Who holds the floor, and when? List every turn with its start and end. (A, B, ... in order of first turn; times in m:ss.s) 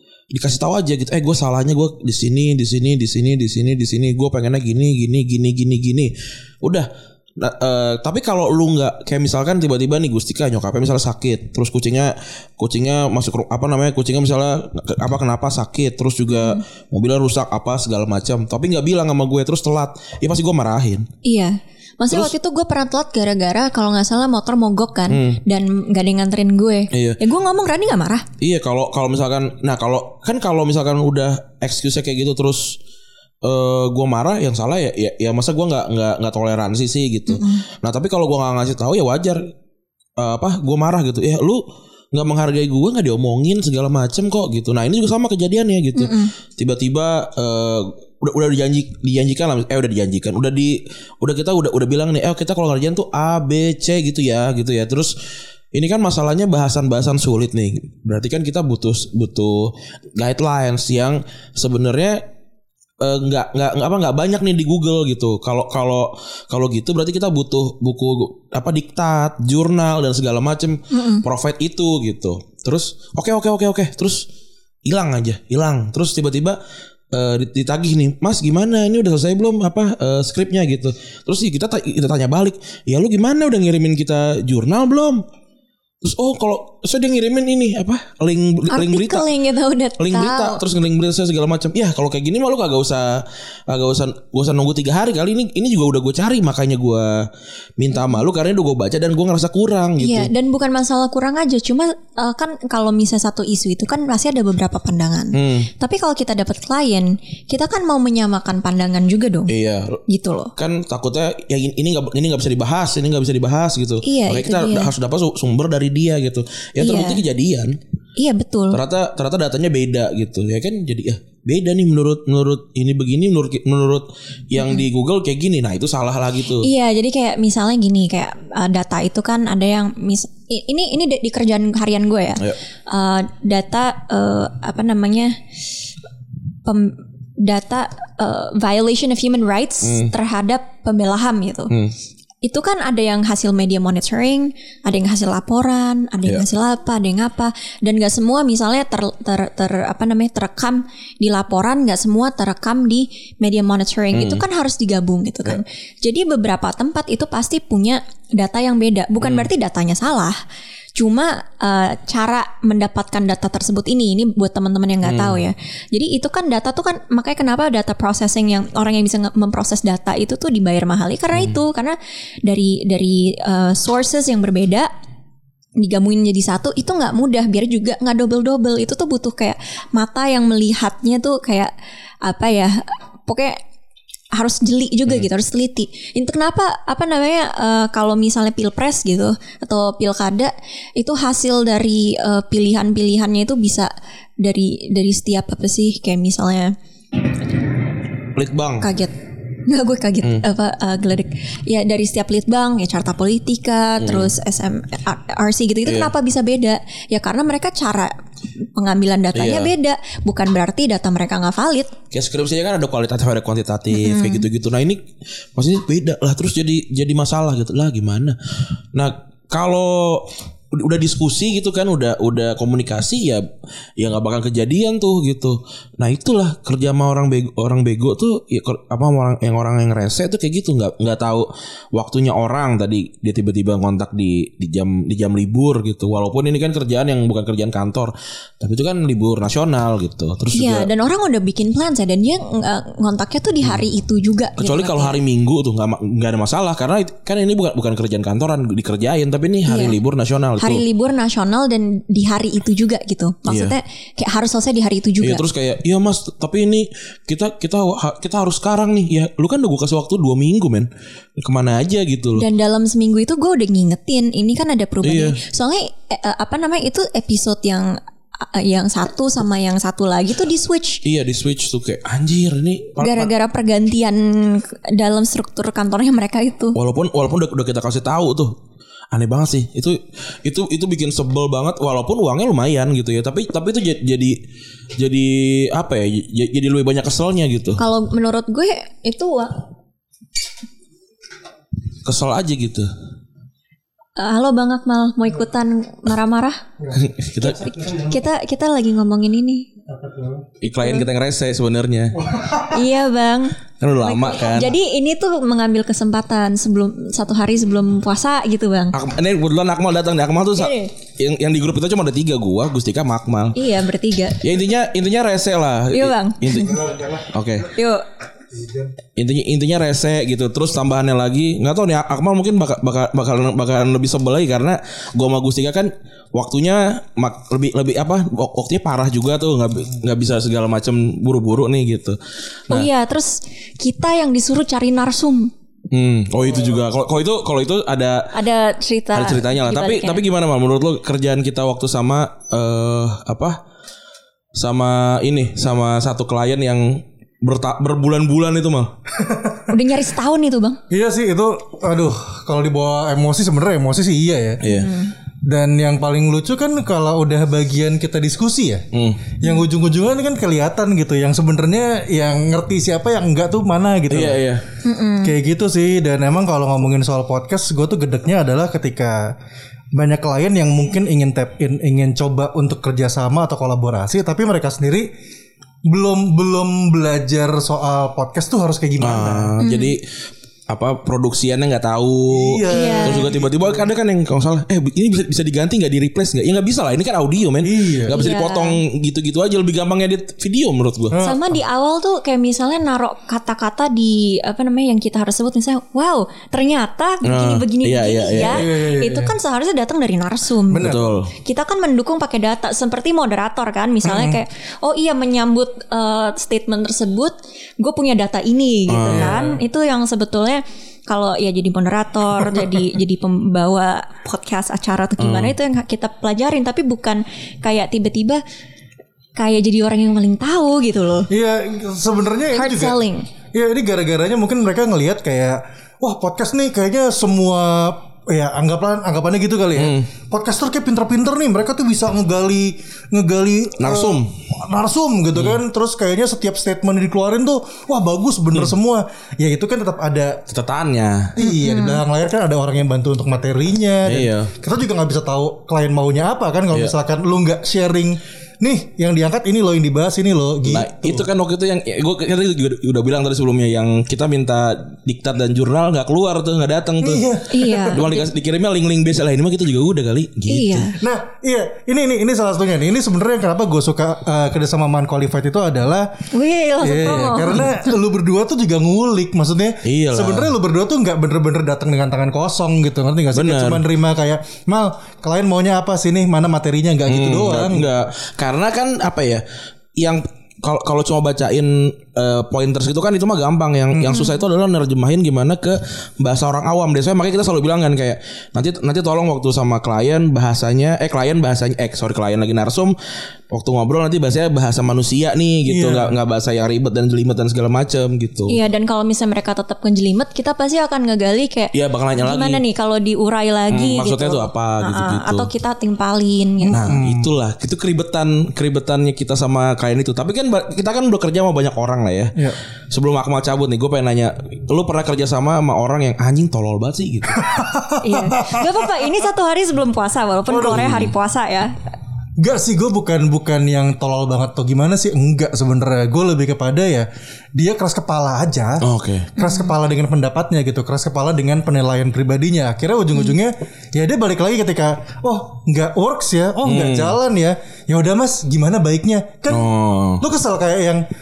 0:00.3-0:21.1 A
0:16.3-0:16.6 B
0:21.2-0:28.3 B
0:25.1-0:25.4 A
0:26.9-0:27.2 A
0:28.4-0:32.8 A
0:33.4-0:39.5 A
0:37.3-0:37.6 B
0:40.2-0:55.1 A
0:46.0-0:46.3 B
0:55.7-1:02.2 A
1:03.0-1:14.3 A
1:10.9-1:11.2 B
1:14.9-1:16.6 A
1:17.1-1:25.2 A
1:26.0-1:29.3 A
1:28.7-1:30.6 B
1:30.0-1:40.3 A
1:40.0-1:49.5 B
1:45.4-1:45.7 A
1:49.5-1:50.0 A
1:50.1-1:50.5 B
1:50.6-1:57.8 A
1:54.0-1:54.9 B
1:56.8-1:57.2 B
1:58.2-1:58.8 B
1:58.7-2:06.7 A
2:04.6-2:04.8 B
2:06.6-2:15.4 B
2:16.6-2:21.7 B
2:19.8-2:20.1 A
2:22.4-2:40.4 B
2:34.1-2:34.4 A
2:39.2-2:39.5 A
2:41.0-2:52.0 B
2:45.0-2:45.4 A
2:52.5-2:54.9 B
2:55.8-3:01.7 B
3:02.2-3:03.6 B
3:04.3-3:16.8 B
3:18.4-3:18.9 A
3:18.8-3:19.1 B
3:19.7-3:28.2 B
3:24.0-3:24.3 A
3:25.9-3:26.1 A
3:28.8-3:32.0 B
3:29.3-3:29.7 A
3:32.1-3:38.4 A
3:33.9-3:34.5 B
3:38.9-4:00.9 A
4:00.5-4:05.2 B
4:04.6-4:10.8 A
4:09.7-4:10.0 B
4:10.6-4:15.4 B
4:13.5-4:13.8 A
4:15.2-4:22.5 A
4:22.4-4:31.0 B
4:25.0-4:25.4 A
4:31.0-4:33.3 A
4:33.0-4:36.8 B
4:36.8-4:38.6 A
4:39.1-4:44.4 A
4:45.0-4:47.8 A
4:47.8-4:49.6 B
4:52.0-4:52.9 A
4:54.2-4:56.6 B
4:56.8-4:58.2 C
4:56.9-4:57.7 A
4:57.4-4:59.7 B
4:59.9-5:00.5 C
5:00.6-5:02.2 A
5:02.2-5:02.8 C
5:02.7-5:09.0 B
5:03.8-5:04.7 A
5:08.9-5:13.7 A
5:10.6-5:10.9 B
5:13.6-5:14.5 B
5:14.4-5:17.7 A
5:15.9-5:16.8 B
5:16.6-5:17.4 C
5:17.6-5:18.1 B
5:18.5-5:18.9 C
5:19.2-5:32.9 A
5:32.7-5:35.5 B
5:35.9-5:38.3 A
5:38.3-5:40.2 B
5:39.1-5:43.6 A
5:44.6-5:48.9 A
5:49.2-5:49.7 C
5:49.7-5:50.8 B
5:50.9-5:54.6 C
5:54.6-5:54.9 A
5:54.7-5:55.1 B
5:55.4-6:04.5 C
5:58.9-5:59.2 A
6:04.1-6:04.6 A
6:04.8-6:05.3 B
6:05.2-6:09.4 C
6:10.0-6:15.1 C
6:15.9-6:19.6 C
6:19.0-6:20.1 A
6:19.6-6:20.0 B
6:20.7-6:31.2 A
6:22.3-6:23.9 C
6:22.7-6:23.3 B
6:27.6-6:28.2 C
6:28.1-6:28.8 B
6:31.1-6:31.4 C
6:31.2-6:58.4 B
6:37.2-6:38.6 A
6:38.4-6:39.4 C
6:40.7-6:41.1 C
6:40.8-6:41.3 A
6:44.0-6:44.4 C
6:48.9-6:49.4 A
6:49.1-6:49.5 C
6:55.2-6:55.6 A
6:59.4-7:01.3 B
7:01.3-7:03.0 C
7:02.5-7:03.3 B
7:03.5-7:20.5 C
7:09.8-7:10.1 A
7:13.8-7:14.4 A
7:15.4-7:15.6 A
7:20.5-7:21.4 A
7:21.4-7:31.2 C
7:21.4-7:22.0 B
7:24.1-7:24.5 A
7:30.6-7:40.9 A
7:37.0-7:38.1 C
7:37.5-7:38.2 B
7:40.5-7:41.0 B
7:41.0-7:46.1 C
7:46.3-7:47.7 B
7:46.8-7:57.9 C
7:49.8-7:50.5 A
7:53.3-7:53.8 A
7:57.1-7:59.4 A
8:00.0-8:13.0 A
8:03.9-8:04.3 C
8:13.5-8:18.6 A
8:15.7-8:16.2 C
8:18.5-8:26.8 B
8:21.7-8:22.6 A
8:23.7-8:25.5 A
8:26.6-8:27.3 C
8:26.7-8:32.4 A
8:32.9-8:37.6 A
8:37.4-8:38.7 C
8:38.0-8:41.7 B
8:40.5-8:40.9 C
8:40.6-8:41.1 A
8:42.4-9:01.1 C
8:48.8-8:49.4 A
8:49.4-8:49.7 B
8:56.6-8:57.2 A
8:59.5-9:00.2 A